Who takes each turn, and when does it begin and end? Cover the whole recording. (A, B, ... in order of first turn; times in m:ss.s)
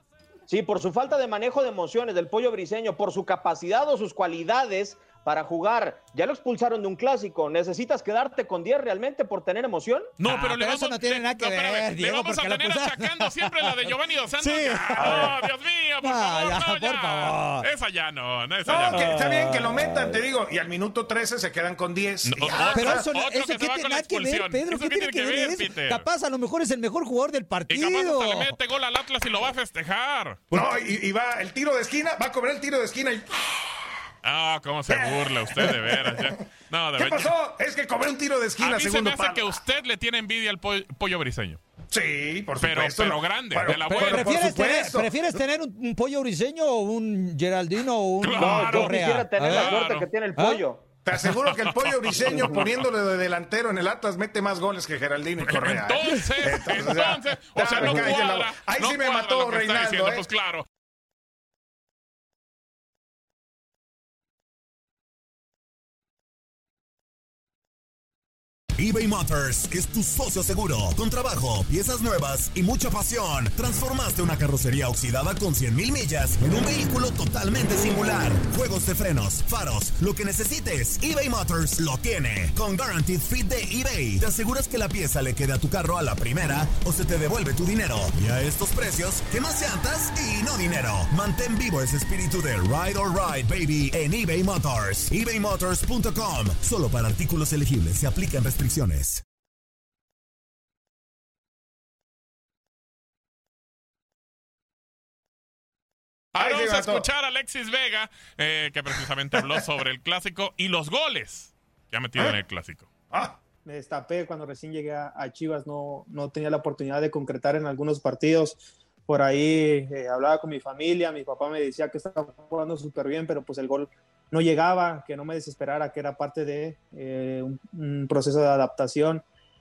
0:00.5-0:10.1 A
0:10.2-0:19.0 B
0:10.2-0:13.8 C
0:14.4-0:15.4 C
0:15.0-0:15.4 D
0:16.0-0:17.7 C
0:18.7-0:23.1 D
0:18.9-0:20.2 C
0:22.2-0:26.1 B
0:22.7-0:28.6 C
0:27.7-0:30.4 B
0:30.5-0:33.9 D
0:34.2-0:37.3 B
0:34.9-0:36.4 D
0:37.0-0:39.6 D
0:38.6-0:41.6 B
0:41.9-0:45.3 D
0:42.6-0:44.3 B
0:43.9-0:49.8 C
0:48.2-0:50.1 B
0:48.4-0:50.9 A
0:50.4-0:50.6 C
0:51.0-1:00.2 D
0:51.2-0:52.7 B
0:52.3-0:52.6 A
0:55.4-1:00.6 B
1:08.8-1:39.2 E
1:46.4-1:52.9 B
1:46.4-1:47.1 D
1:49.4-1:49.6 D
1:53.1-1:53.4 D
1:53.6-2:09.2 F